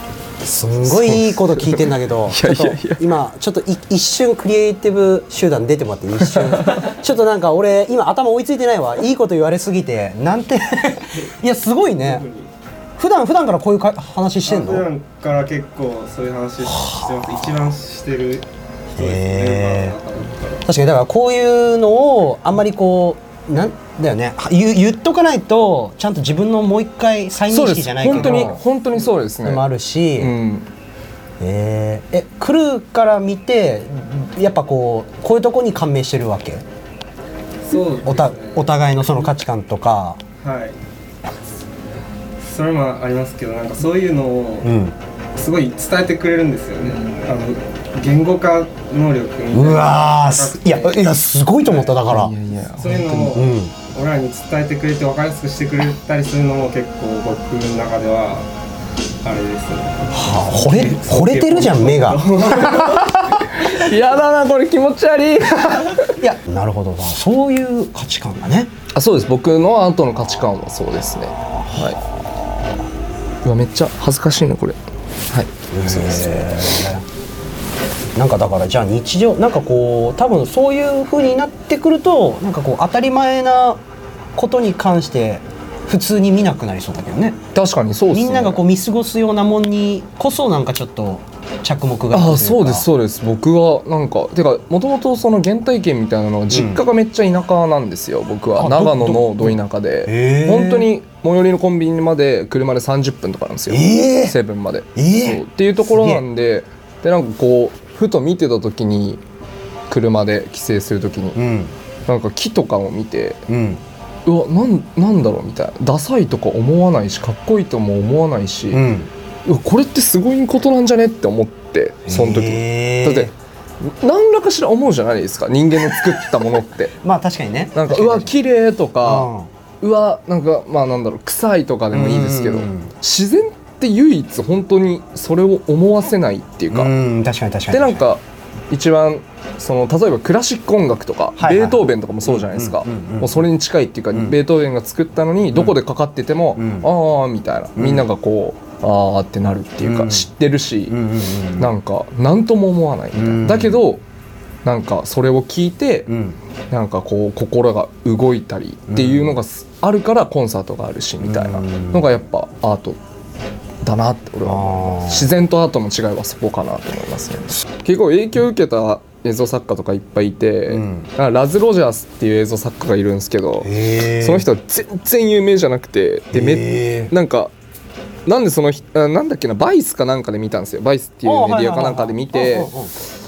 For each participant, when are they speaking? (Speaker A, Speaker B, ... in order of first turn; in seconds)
Speaker A: 0.4-12.2, 13.0-14.9, 16.7-17.1, 19.0-19.9, 20.6-28.6, 29.4-30.3, 31.4-36.6, 38.0-40.2, 44.6-45.0, 49.5-52.3, 53.3-53.7, 60.1-63.5, 66.1-68.7, 71.5-72.5, 75.7-77.1, 78.2-83.8, 84.3-87.4, 88.1-92.9, 96.5-96.8, 98.6-100.9, 103.7-104.4, 105.0-106.2, 111.3-111.7, 113.5-113.8, 118.7-119.1, 122.1-123.3, 127.0-128.3, 129.0-129.5, 131.9-132.9, 136.7-138.0, 141.4-143.4, 146.6-146.9, 147.8-148.1, 149.8-150.3, 150.9-151.7, 153.1-153.8, 156.1-156.4, 158.9-159.4, 161.2-162.1, 164.5-165.3, 170.7-171.1, 173.6-174.5, 176.3-177.1, 181.2-183.0
Speaker B: 0.8-3.1, 6.2-6.9, 27.5-29.7, 30.2-30.7, 52.1-53.4, 63.6-66.1, 68.9-72.0, 73.4-74.8, 75.3-76.9, 87.5-88.6, 92.1-109.2, 109.9-111.4, 112.1-113.4, 114.2-118.9, 119.5-126.9, 127.8-129.3, 129.8-136.9, 137.7-151.0, 151.6-154.0, 154.7-156.1, 156.7-163.0, 163.8-177.5, 178.2-182.7
Speaker C: 11.9-12.5, 14.5-20.6, 28.1-28.6, 37.6-38.7, 40.4-40.8, 42.4-44.7, 45.4-51.0, 51.7-52.0, 52.8-58.5, 59.2-63.0